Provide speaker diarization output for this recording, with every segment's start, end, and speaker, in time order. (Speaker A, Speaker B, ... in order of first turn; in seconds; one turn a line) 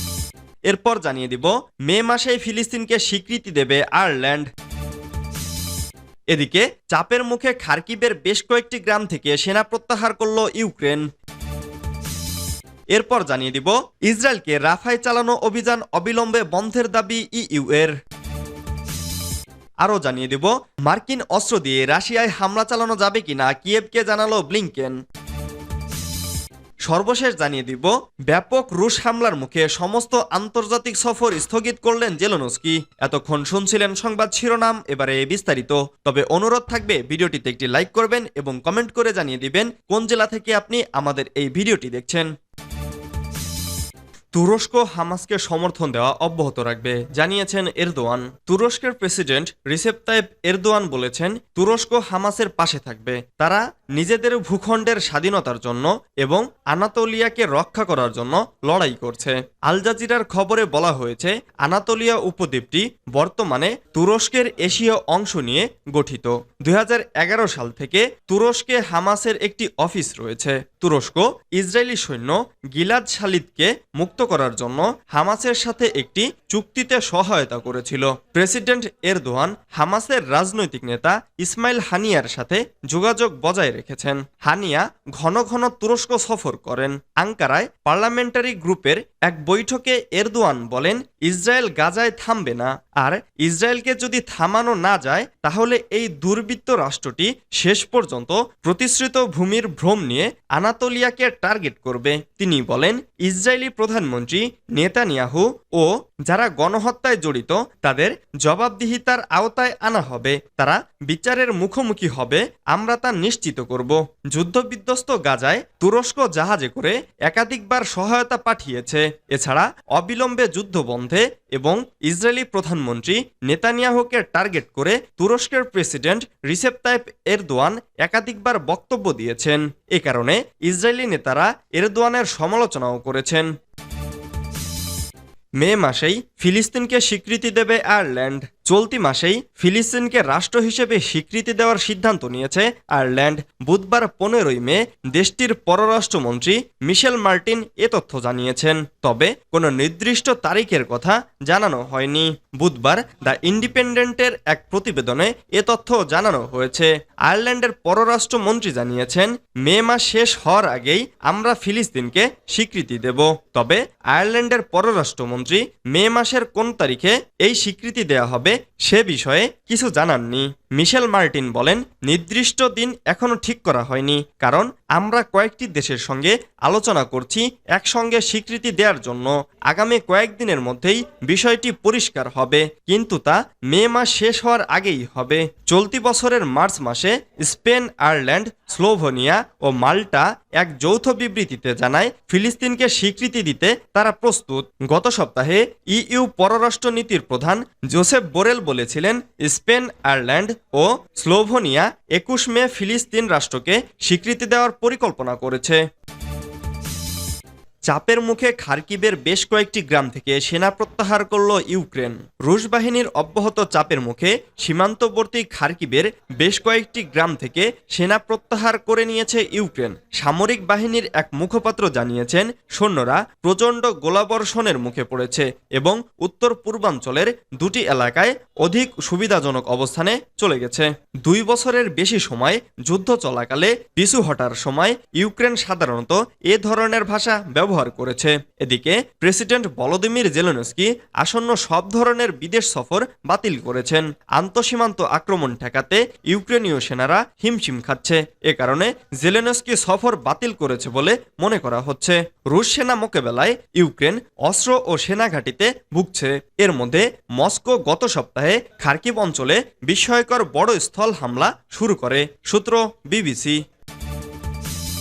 Speaker A: 0.7-4.5
Speaker A: 6.3-11.1
Speaker A: 12.9-17.9
Speaker A: 19.8-25.0
Speaker A: 26.9-42.3
Speaker A: 44.3-133.5
Speaker A: 135.6-205.8
Speaker A: 207.9-263.6